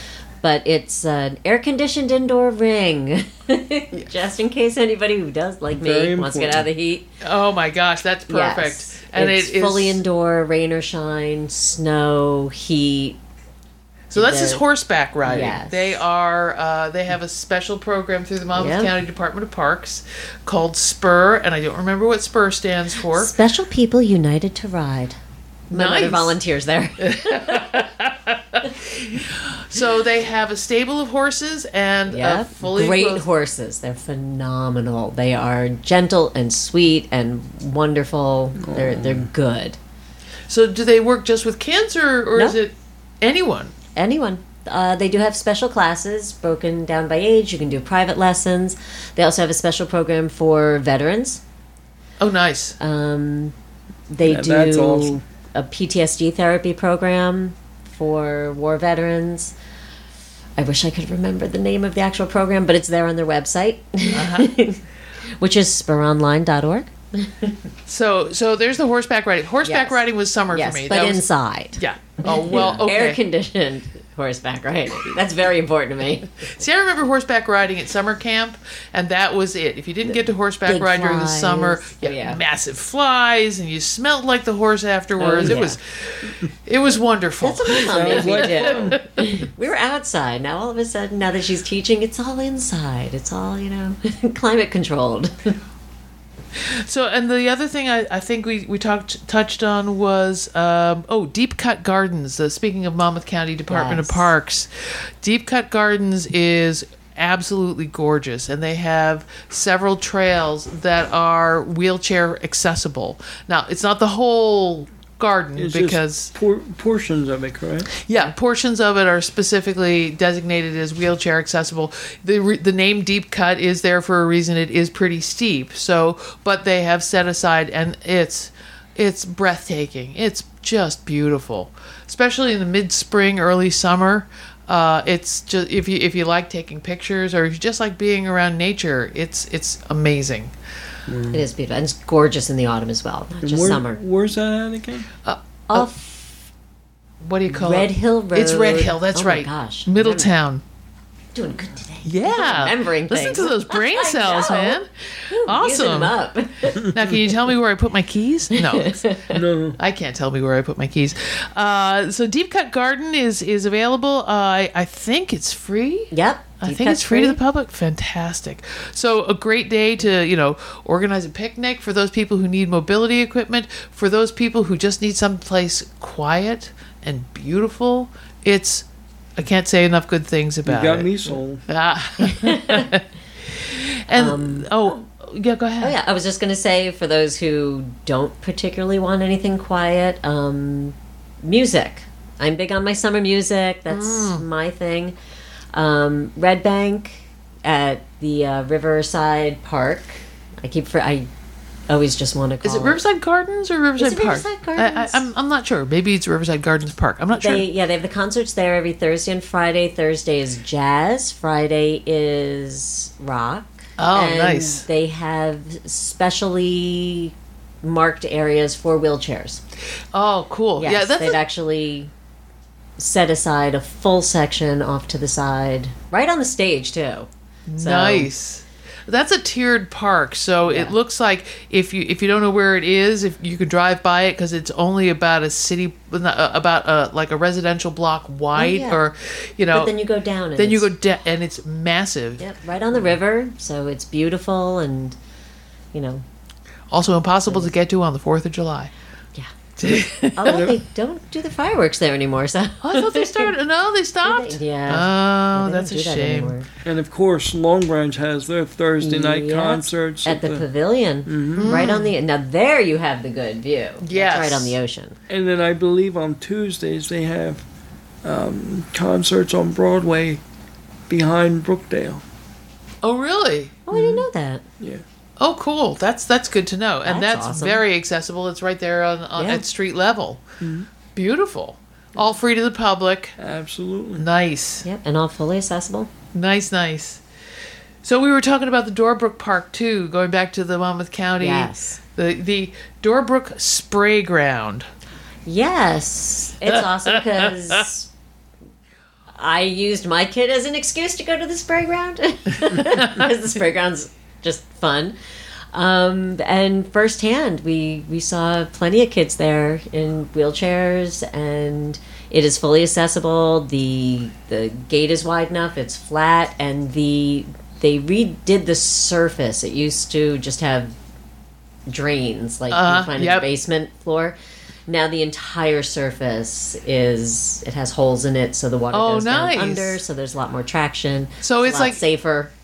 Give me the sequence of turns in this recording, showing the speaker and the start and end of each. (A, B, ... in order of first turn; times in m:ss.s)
0:00.4-0:07.1 A
0:05.8-0:06.7 B
0:07.2-0:10.0 C
0:08.3-0:13.2 A
0:14.1-0:23.3 C
0:14.1-0:14.6 A
0:15.2-0:16.0 A
0:18.6-0:18.9 A
0:23.1-0:25.2 A
0:25.7-0:26.4 C
0:25.7-0:27.8 A
0:27.0-0:33.2 C
0:32.1-0:39.8 A
0:38.6-0:39.3 B
0:40.5-0:43.7 C
0:44.0-0:51.4 A
0:52.2-0:52.8 C
0:52.8-0:53.5 A
0:54.1-0:59.5 A
0:54.2-0:55.2 B
1:00.6-1:04.8 A
1:04.1-1:04.5 C
1:05.4-1:07.6 A
1:07.9-1:11.2 C
1:09.6-1:16.5 A
1:11.8-1:13.2 C
1:16.5-1:29.4 C
1:20.7-1:22.4 A
1:25.2-1:25.8 A
1:27.4-1:35.6 A
1:27.7-1:29.0 B
1:36.6-1:44.7 C
1:43.7-1:44.3 A
1:45.2-1:56.3 C
1:55.6-1:57.9 B
1:58.0-2:20.5 C
2:21.1-2:21.4 B
2:21.3-2:24.0 A
2:23.4-2:25.1 B
2:25.2-2:25.9 C
2:25.7-2:26.3 A
2:27.2-2:30.6 C
2:27.5-2:30.3 A
2:31.4-2:36.9 A
2:32.0-2:36.1 C
2:36.9-2:39.1 C
2:38.5-2:39.4 A
2:39.3-2:39.8 B
2:39.8-2:58.9 C
2:46.1-2:47.4 A
2:59.4-3:03.0 C
3:00.7-3:01.6 B
3:02.3-3:02.9 A
3:03.6-3:05.9 C
3:04.1-3:04.7 A
3:05.8-3:15.2 A
3:13.9-3:14.4 C
3:15.7-3:21.3 A
3:21.9-3:23.0 A
3:22.6-3:27.7 C
3:24.0-3:25.3 A
3:27.3-3:39.6 A
3:34.0-3:34.8 C
3:40.1-3:41.4 C
3:40.8-3:42.1 A
3:43.0-3:47.3 A
3:47.7-3:59.9 C
3:47.8-3:48.3 A
3:50.7-3:50.9 A
3:58.5-3:59.0 A
3:59.7-4:00.9 A
4:00.6-4:02.5 C
4:02.4-4:05.2 A
4:05.9-4:06.2 A
4:06.9-4:08.9 C
4:09.8-4:10.7 C
4:10.4-4:13.5 A
4:10.5-4:10.8 B
4:12.8-4:16.6 C
4:14.2-4:16.7 A
4:16.8-4:20.6 B
4:19.0-4:25.2 A
4:21.3-4:21.8 B
4:21.6-4:22.1 C
4:24.0-4:24.8 C
4:25.3-4:27.7 B
4:28.2-4:30.4 B
4:31.1-4:32.2 B
4:33.0-4:33.8 C
4:33.9-4:34.6 A
4:33.9-4:34.2 B
4:34.8-4:35.0 B
4:35.4-4:40.4 C
4:37.0-4:37.8 A
4:39.4-4:39.6 A
4:40.6-4:40.9 B
4:41.2-4:43.4 C
4:43.4-4:44.3 B
4:44.2-4:44.8 C
4:44.8-4:46.1 A
4:46.3-4:47.2 C
4:48.0-4:54.9 C
4:51.4-4:52.0 A
4:55.5-4:58.1 A
4:56.7-4:57.8 C
4:59.4-5:05.2 A
5:05.7-5:21.0 A
5:21.9-5:24.4 A
5:22.7-5:23.5 C
5:24.9-5:32.5 A
5:28.9-5:30.0 C
5:31.4-5:32.0 C